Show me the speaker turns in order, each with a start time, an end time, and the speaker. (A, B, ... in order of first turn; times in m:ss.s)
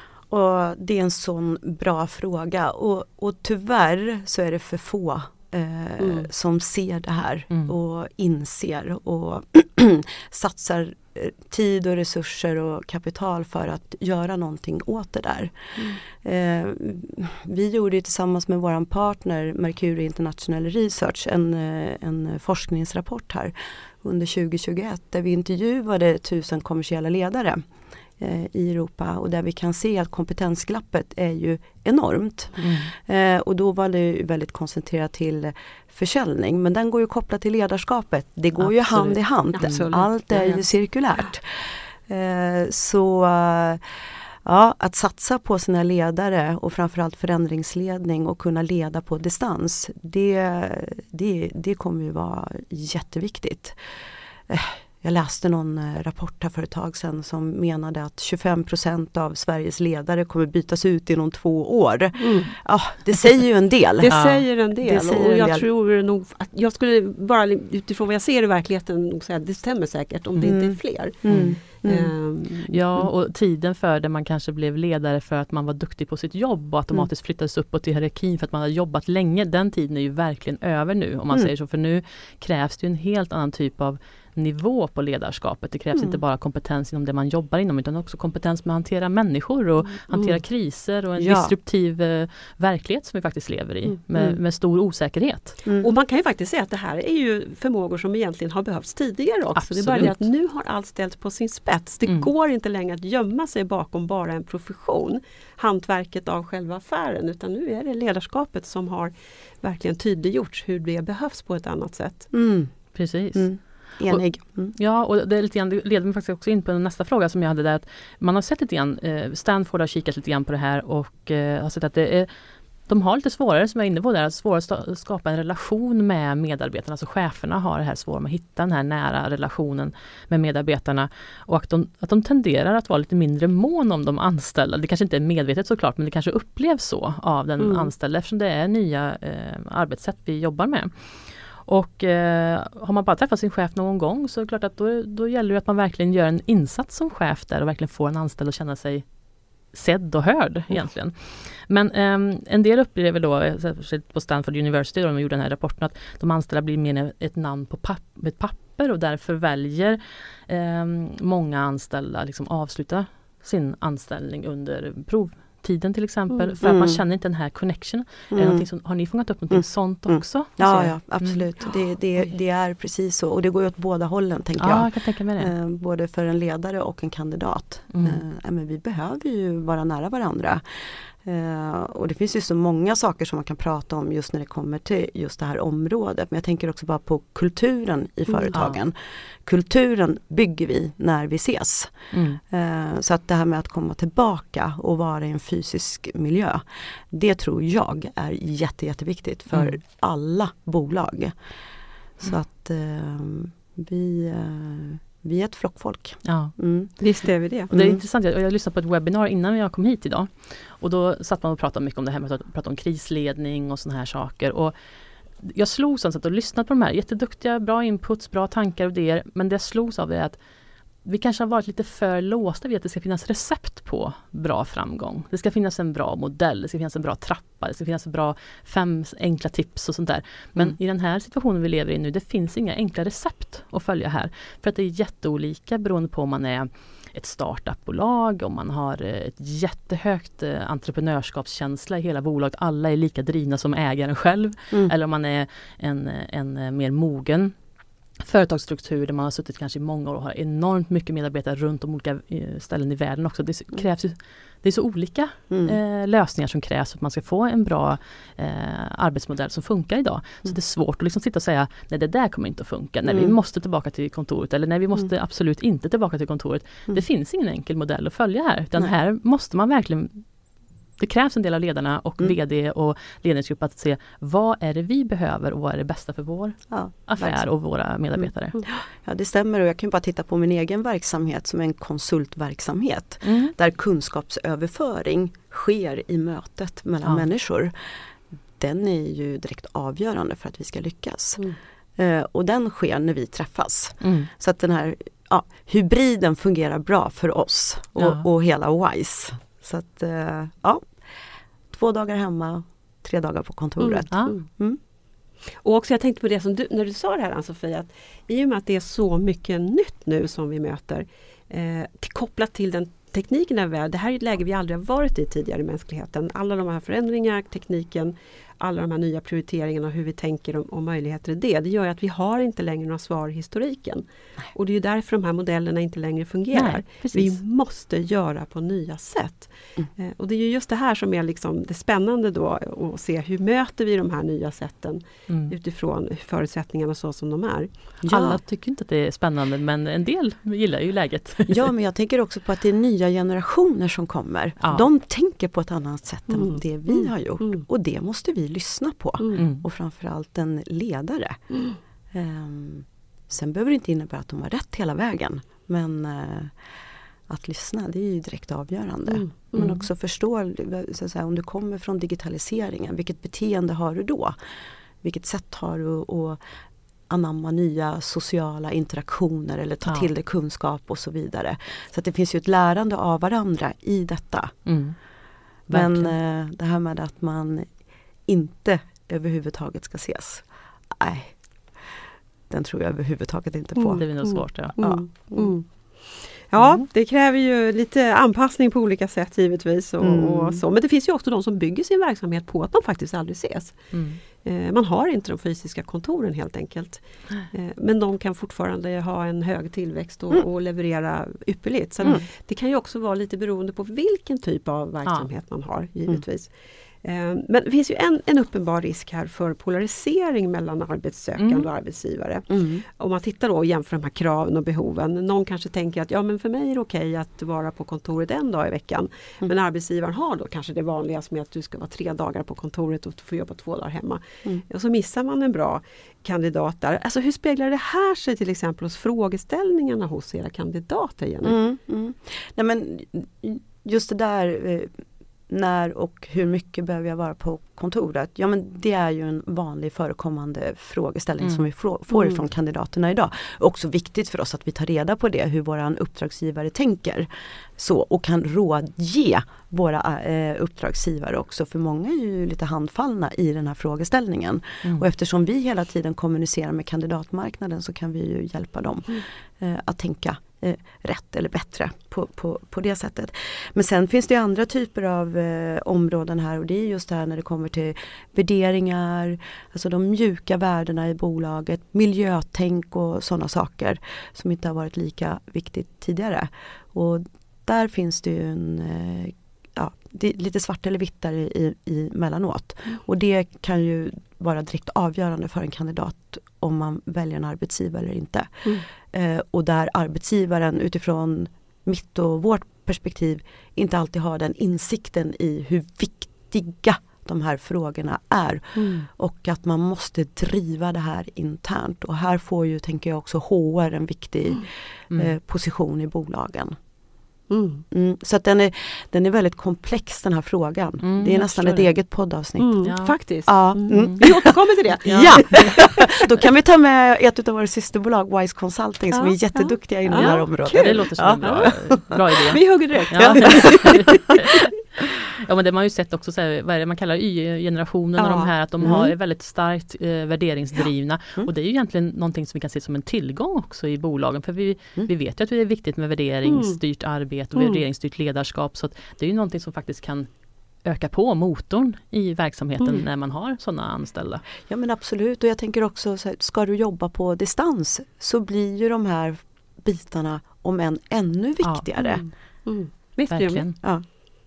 0:00.3-0:27.7 A
0:06.0-0:06.3 B
0:28.2-0:43.8 A
0:32.6-0:32.9 C
0:38.6-0:39.2 C
0:39.5-0:40.6 B
0:44.4-0:53.8 A
0:54.5-1:04.2 A
1:02.2-1:02.5 B
1:04.0-1:13.1 B
1:04.1-1:04.4 C
1:04.8-1:05.7 A
1:10.4-1:12.1 A
1:11.3-1:11.6 C
1:12.7-1:35.6 C
1:25.9-1:26.2 A
1:31.2-1:31.6 A
1:35.8-1:52.3 B
1:39.6-1:40.2 C
1:52.3-1:54.8 A
1:52.9-2:02.3 C
2:02.9-2:29.1 C
2:17.6-2:17.9 B
2:29.7-2:51.4 C
2:46.5-2:47.0 A
2:48.3-2:48.7 A
2:49.5-3:00.6 A
2:54.6-2:55.5 C
2:57.9-2:58.2 C
3:01.2-3:21.4 A
3:08.5-3:08.8 C
3:12.1-3:12.4 C
3:19.5-3:19.8 C
3:22.2-3:26.9 A
3:26.2-3:26.6 C
3:27.0-3:27.7 B
3:27.7-3:28.0 A
3:27.7-3:34.7 C
3:35.4-3:40.4 C
3:41.0-4:07.6 C
4:08.2-4:30.3 C
4:15.5-4:15.8 A
4:23.1-4:23.4 A
4:31.0-4:38.6 C
4:36.7-4:37.4 A
4:38.2-4:47.7 A
4:43.2-4:43.5 C
4:48.6-4:51.4 A
4:52.0-5:00.9 A
4:54.0-4:54.3 C
4:58.0-4:58.2 C
5:01.7-5:04.8 A
5:03.8-5:04.5 B
5:04.1-5:04.4 C
5:05.6-5:37.7 B
5:26.5-5:27.4 C
5:35.3-5:35.5 C
5:38.0-5:41.7 C
5:38.1-5:38.4 A
5:41.5-5:51.4 A
5:44.6-5:44.9 C
5:46.3-5:47.7 B
5:49.4-5:49.6 C
5:52.1-5:56.6 A
5:57.3-6:04.4 A
5:59.1-5:59.7 B
5:59.6-5:59.9 C
6:05.0-6:06.4 A
6:07.1-6:14.6 A
6:14.7-6:15.0 C
6:15.7-6:16.1 C
6:15.7-6:17.7 A
6:18.3-6:21.4 A
6:22.5-6:24.0 A
6:23.8-7:11.6 B
6:24.0-6:24.8 C
6:24.8-6:25.5 A
6:30.0-6:30.6 A
6:33.9-6:34.2 C
6:51.4-6:51.7 C
6:52.5-6:52.8 A
7:11.4-8:26.8 A
8:18.8-8:19.1 B
8:27.5-8:27.8 B
8:27.9-8:32.9 A
8:31.0-8:31.9 C
8:32.6-8:36.2 B
8:32.8-8:33.2 C
8:33.5-8:42.2 A
8:33.9-8:34.3 C
8:35.0-8:35.7 C
8:39.1-8:41.8 B
8:40.1-8:44.7 C
8:42.5-8:44.2 B
8:43.1-8:44.2 A
8:45.3-9:00.3 C
8:48.2-8:48.9 B
8:48.8-8:49.1 A
8:56.5-8:56.8 B
8:57.6-8:57.8 B
9:00.8-9:04.4 C
9:04.6-9:12.2 A
9:12.0-9:13.7 B
9:13.3-9:13.8 C